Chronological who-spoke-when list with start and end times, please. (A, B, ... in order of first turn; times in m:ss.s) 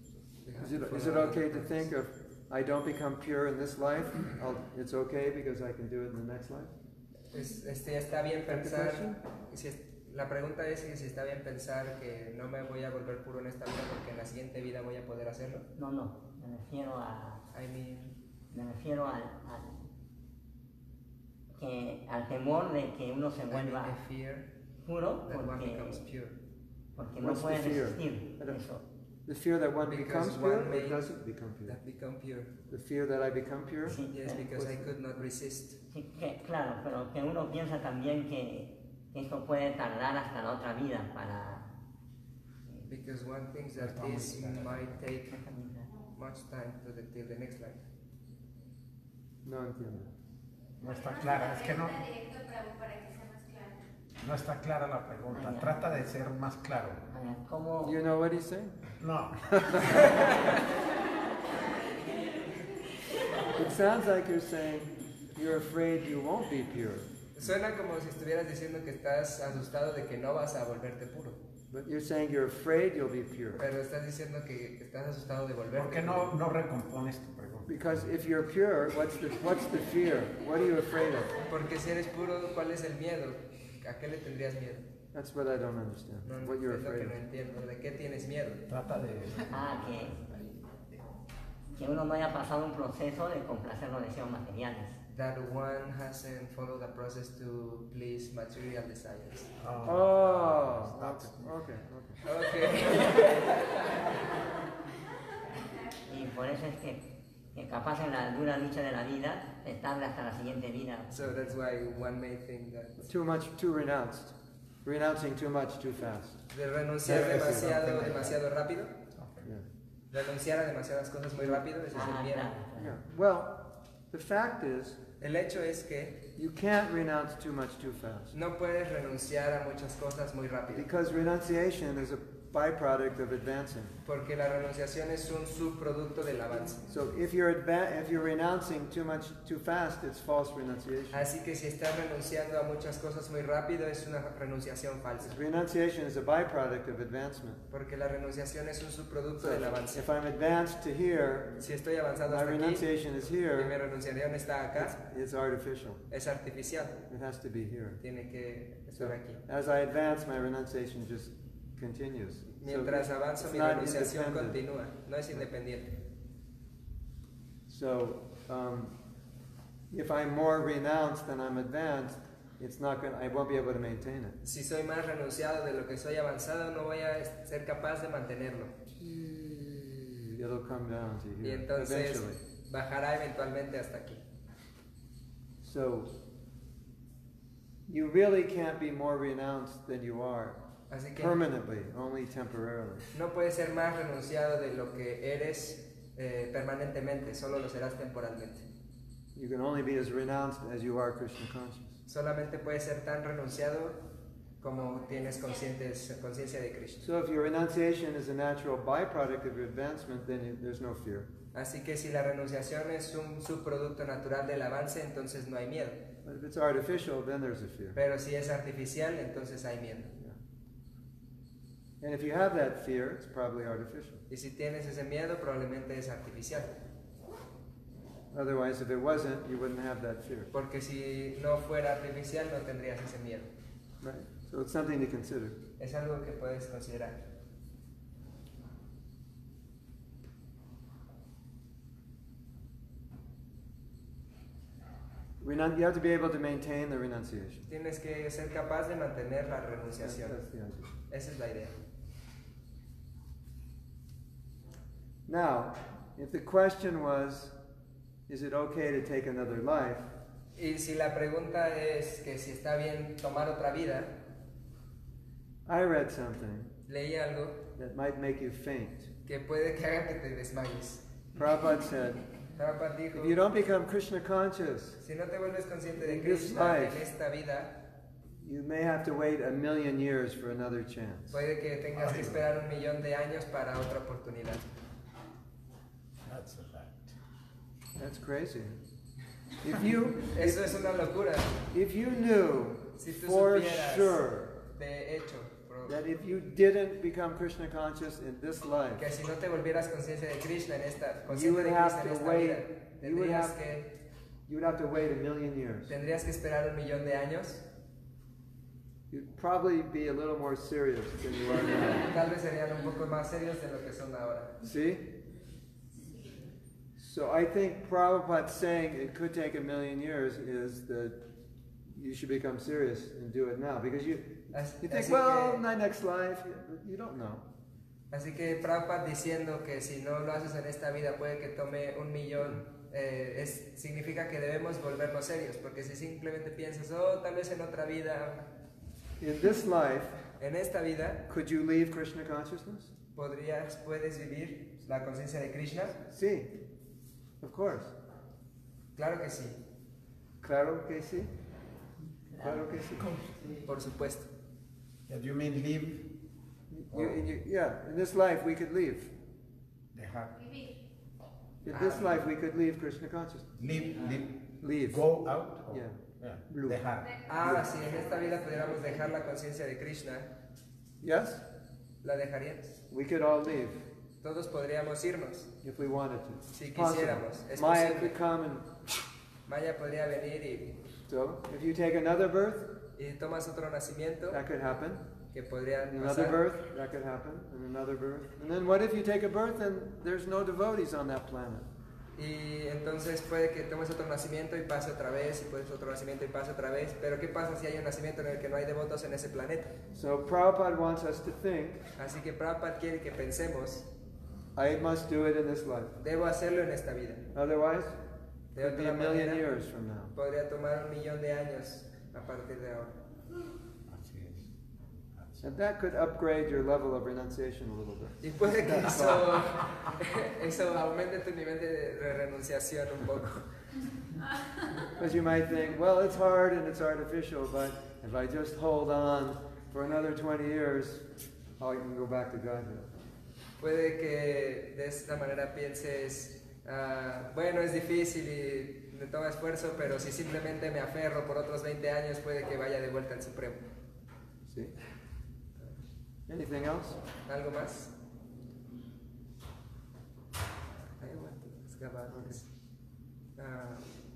0:00.4-0:01.9 A
0:00.6-0:06.7 B
0:07.3-0:15.7 A
0:08.5-0:09.2 B
0:15.8-0:17.4 C
0:17.5-0:18.2 A
0:18.5-0:19.9 C
0:21.6-0:24.0 C
0:23.5-0:24.5 A
0:24.8-0:26.0 C
0:25.2-0:26.4 A
0:27.0-0:28.8 C
0:27.2-0:28.6 B
0:29.3-0:31.8 B
0:29.8-0:31.1 A
0:31.6-0:32.6 A
0:32.7-0:34.9 B
0:33.9-0:34.5 C
0:34.1-0:35.8 A
0:35.9-0:41.7 C
0:42.9-0:45.5 A
0:43.8-0:44.7 B
0:44.2-0:44.5 D
0:45.3-0:45.9 C
0:46.2-0:47.8 A
0:49.4-0:50.1 B
0:50.8-0:52.0 D
0:50.8-0:53.8 E
0:54.2-0:57.0 D
0:55.3-0:56.1 C
0:57.1-0:58.0 C
0:57.8-0:58.8 B
0:59.0-1:00.2 D
0:59.5-1:00.4 B
1:00.0-1:00.6 A
1:03.5-1:07.1 B
1:07.4-1:11.4 A
1:11.7-1:13.6 B
1:13.6-1:16.4 A
1:15.8-1:18.1 D
1:17.7-1:21.4 B
1:21.5-1:24.9 A
1:25.1-1:27.2 B
1:26.2-1:28.6 A
1:28.7-1:30.5 D
1:29.5-1:30.2 C
1:31.8-1:35.0 C
1:35.1-1:39.5 A
1:39.6-1:41.6 D
1:39.8-1:42.2 B
1:42.2-1:44.1 A
1:46.1-1:51.1 C
1:51.1-1:53.1 A
1:53.0-1:56.4 B
1:56.5-1:59.0 A
1:57.0-1:58.4 B
1:59.2-1:59.5 D
2:00.1-2:02.5 A
2:01.4-2:01.6 B
2:01.9-2:03.0 C
2:02.8-2:05.0 B
2:05.2-2:06.3 A
2:06.4-2:08.4 B
2:08.3-2:10.9 A
2:10.7-2:14.0 B
2:14.0-2:16.8 A
2:16.9-2:21.3 B
2:21.1-2:25.4 A
2:25.2-2:27.6 B
2:27.7-2:30.1 A
2:29.4-2:31.6 B
2:31.6-2:32.9 A
2:32.3-2:33.8 B
2:33.5-2:35.0 A
2:34.8-2:36.0 B
2:36.1-2:37.0 A
2:37.1-2:38.0 B
2:38.0-2:39.4 A
2:39.0-2:44.6 B
2:42.6-2:46.0 A
2:47.7-2:49.0 B
2:49.9-2:54.4 B
2:54.4-2:58.8 A
2:59.0-3:02.4 B
3:01.4-3:04.2 A
3:05.6-3:06.1 B
3:07.9-3:10.6 B
3:10.9-3:11.4 A
3:11.2-3:13.1 B
3:13.1-3:18.7 A
3:19.4-3:22.0 B
3:22.1-3:24.0 A
3:24.6-3:27.1 A
3:27.0-3:31.3 B
3:31.5-3:36.1 A
3:36.2-3:38.0 B
3:38.0-3:40.1 A
3:42.0-3:44.2 B
3:44.3-3:46.8 A
3:48.3-3:50.5 B
3:50.5-3:53.5 A
3:54.0-3:55.6 B
3:55.8-3:57.2 A
4:05.4-4:07.7 B
4:07.7-4:10.4 A
4:10.0-4:10.9 B
4:11.1-4:11.8 A
4:15.3-4:17.6 B
4:18.3-4:20.1 B
4:20.6-4:24.2 A
4:25.7-4:26.7 B
4:26.9-4:27.7 A
4:27.8-4:29.1 B
4:29.3-4:31.0 A
4:31.4-4:32.2 B
4:32.6-4:33.4 A
4:33.1-4:35.0 B
4:35.0-4:37.9 A
4:36.0-4:37.1 B
4:38.4-4:41.4 B
4:41.3-4:44.7 A
4:42.0-4:42.4 D
4:46.3-4:47.2 D
4:48.0-4:48.8 B
4:49.6-4:50.8 B
4:50.3-4:51.6 A
4:51.7-4:54.6 B
4:53.0-4:56.0 A
4:55.8-4:59.1 B
4:59.0-5:03.9 A
5:01.3-5:03.6 B
5:04.5-5:05.9 B
5:05.9-5:07.6 A
5:09.1-5:12.1 B
5:11.8-5:14.6 A
5:14.6-5:15.1 B
5:17.0-5:21.2 B
5:21.9-5:27.5 B
5:24.5-5:25.6 A
5:28.1-5:38.5 A
5:39.2-5:40.2 B
5:40.4-5:41.3 A
5:41.3-5:42.9 B
5:43.2-5:46.0 A
5:46.1-5:46.6 B
5:47.4-5:48.0 B
5:49.0-5:49.6 A
5:50.4-5:51.3 B
5:52.3-5:52.8 C
5:52.4-5:53.2 B
5:53.6-5:54.3 A
5:55.1-5:56.1 D
5:56.7-5:59.1 B
5:56.9-5:57.2 D
5:59.9-6:00.4 D
6:00.4-6:00.8 E
6:01.6-6:03.6 B
6:01.7-6:02.2 A
6:03.6-6:07.2 D
6:04.6-6:05.0 B
6:05.7-6:06.8 B
6:07.3-6:10.3 A
6:11.0-6:11.4 B
6:12.0-6:12.8 A
6:12.9-6:13.9 B
6:14.2-6:15.5 A
6:15.6-6:18.8 B
6:16.5-6:18.2 A
6:19.5-6:20.9 A
6:21.1-6:22.8 B
6:23.0-6:24.4 A
6:24.3-6:25.1 B
6:25.3-6:26.4 A
6:25.8-6:31.7 B
6:32.2-6:39.8 A
6:39.9-6:41.8 B
6:42.0-6:43.9 A
6:44.6-6:46.0 B
6:46.0-6:47.3 A
6:47.3-6:48.0 B
6:48.6-6:49.5 A
6:48.6-6:50.1 B
6:50.1-6:53.0 A
6:53.9-6:54.5 D
6:55.4-6:59.5 B
6:58.2-7:03.5 A
7:05.0-7:12.9 B
7:13.6-7:23.7 A
7:24.5-7:24.7 B
7:26.3-7:27.0 B
7:27.2-7:28.0 A
7:31.0-7:32.4 A
7:32.1-7:32.4 B
7:33.4-7:33.9 A